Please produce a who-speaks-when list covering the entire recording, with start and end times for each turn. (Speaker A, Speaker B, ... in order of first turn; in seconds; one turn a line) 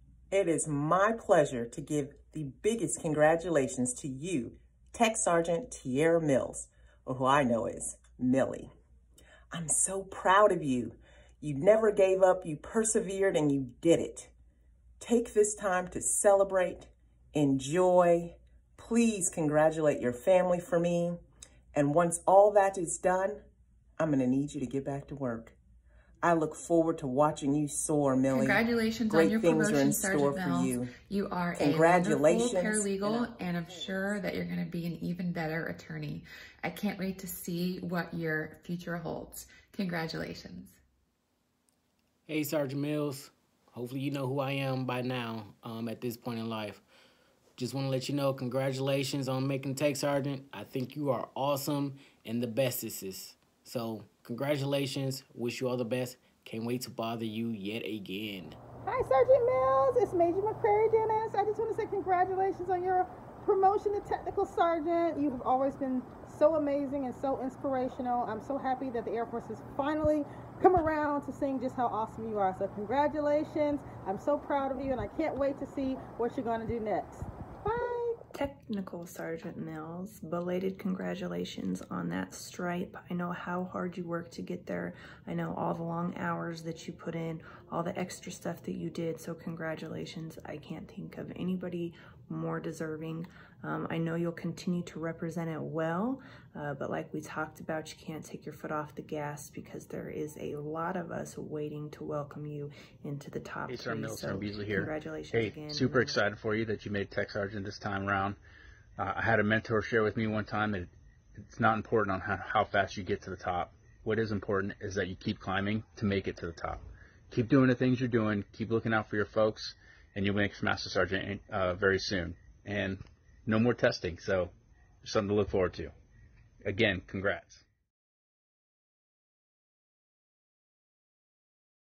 Speaker A: 0.3-8.7
Speaker A: 9.5-14.3
Speaker A: 15.0-21.2
Speaker A: 21.7-23.4
Speaker A: 24.0-25.6
Speaker A: 26.2-30.9
Speaker B: 28.3-40.8
Speaker A: 31.6-33.4
Speaker C: 42.3-46.8
Speaker C: 47.6-58.6
Speaker D: 58.9-78.2
Speaker E: 78.3-106.2
Speaker F: 103.7-108.4
Speaker F: 109.0-110.9
Speaker F: 111.4-124.5
Speaker F: 125.0-125.9
Speaker F: 126.7-127.6